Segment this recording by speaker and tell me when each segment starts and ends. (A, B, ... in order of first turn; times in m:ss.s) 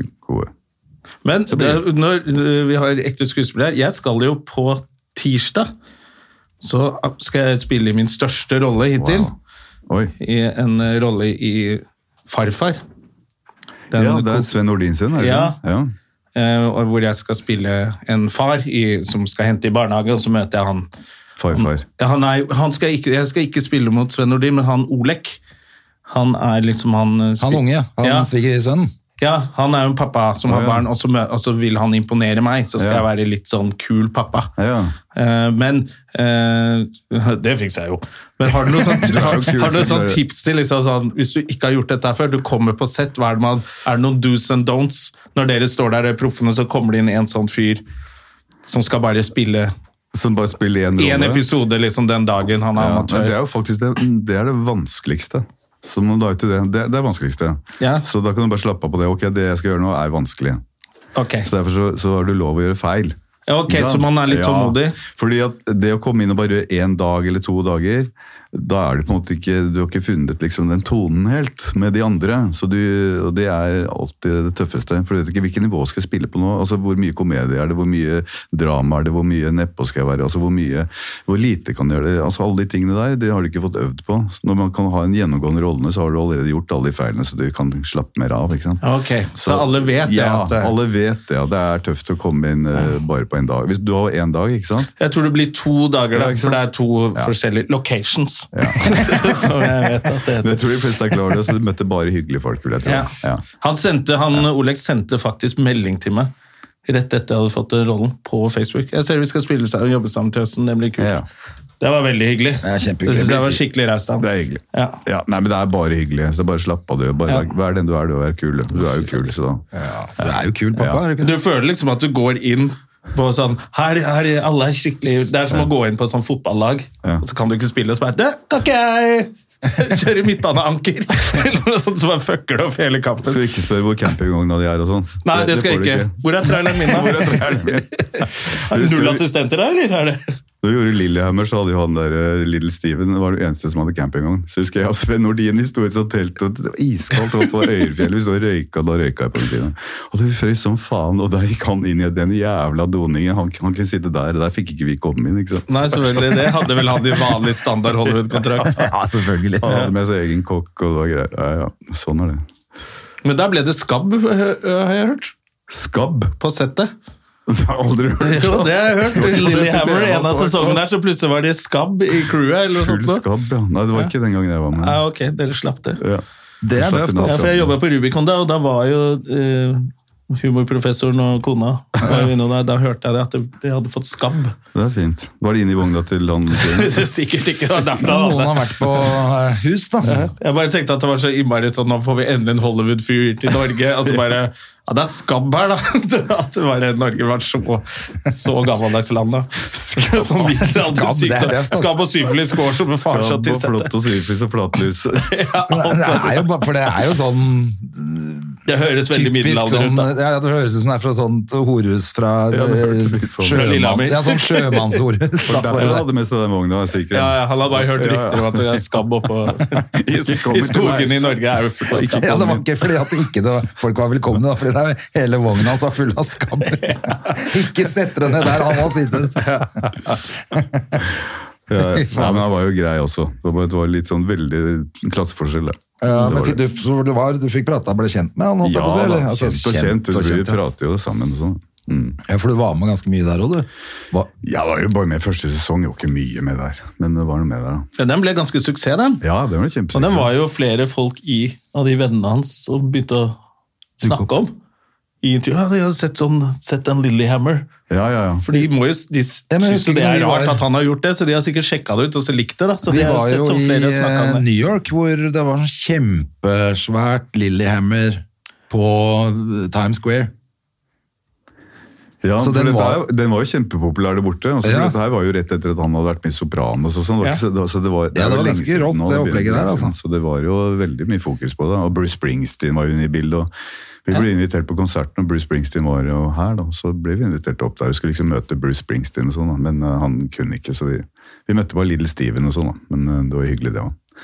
0:00.2-0:00.5 A
0:01.2-0:05.7 B
0:01.5-0:01.8 A
0:06.6-0:09.3 B
0:09.0-0:09.4 A
0:09.9-0:10.1 A
0:10.2-0:12.8 B
0:13.9-0:14.5 B
0:13.9-0:15.9 A
0:15.2-0:15.6 B
0:16.4-0:20.9 B
0:21.4-0:21.9 A
0:21.5-0:25.4 B
0:26.1-0:28.3 B
0:27.4-0:28.9 C
0:29.2-0:34.5 B
0:30.5-0:30.8 A
0:32.8-0:33.0 A
0:34.6-0:35.0 A
0:35.1-0:47.8 B
0:38.9-0:40.2 A
0:48.7-0:49.7 B
0:50.1-0:51.4 A
0:51.0-0:53.4 B
0:52.8-1:00.6 A
0:57.8-0:58.1 B
1:01.2-1:01.5 B
1:01.4-1:03.2 A
1:03.5-1:05.0 B
1:03.7-1:28.8 A
1:28.8-1:30.7 B
1:29.4-1:34.9 A
1:35.0-1:40.6 B
1:36.1-1:36.6 A
1:38.5-1:39.4 A
1:40.4-1:43.4 A
1:42.8-1:46.3 B
1:46.9-1:51.2 B
1:51.0-1:51.3 A
1:51.8-1:55.0 B
1:52.6-1:53.6 C
1:54.2-1:59.7 A
1:59.7-2:01.4 C
2:00.2-2:01.0 A
2:01.2-2:13.4 B
2:13.2-2:19.2 A
2:15.2-2:20.3 B
2:20.6-2:37.2 A
2:35.7-2:38.8 B
2:38.6-2:39.7 C
2:39.6-2:42.4 A
2:39.6-2:39.9 B
2:43.2-2:45.3 B
2:45.7-2:46.4 A
2:46.4-2:46.9 B
2:47.5-2:50.8 A
2:48.2-2:53.2 B
2:52.7-2:55.0 A
2:54.8-2:56.0 B
2:56.0-2:57.7 A
2:56.6-2:57.5 C
2:57.2-3:04.6 B
3:04.7-3:07.1 A
3:06.5-3:09.1 B
3:07.9-3:10.3 C
3:10.1-3:23.9 B
3:19.7-3:20.6 A
3:20.7-3:22.0 C
3:23.1-3:25.4 A
3:25.2-3:26.5 B
3:25.7-3:28.6 C
3:28.7-3:30.1 B
3:29.1-3:36.1 C
3:32.5-3:33.7 A
3:33.4-3:35.0 B
3:35.5-3:38.8 A
3:37.1-3:42.4 B
3:39.8-3:41.4 A
3:41.9-3:42.7 A
3:42.2-3:49.6 C
3:46.8-3:47.4 B
3:49.4-3:50.2 B
3:50.5-3:51.0 C
3:51.7-3:56.6 A
3:51.8-3:52.4 C
3:56.0-4:00.6 C
3:58.6-4:02.2 A
4:02.2-4:04.3 C
4:04.4-4:07.9 A
4:08.0-4:09.2 B
4:09.2-4:10.3 A
4:09.9-4:13.4 B
4:14.0-4:14.6 B
4:14.0-4:14.3 C
4:15.2-4:17.7 B
4:17.9-4:18.4 A
4:18.4-4:24.4 B
4:19.5-4:20.6 C
4:22.8-4:30.3 C
4:32.2-4:43.5 A
4:32.4-4:33.0 C
4:34.6-4:35.0 C
4:38.1-4:39.9 C
4:44.1-4:54.0 A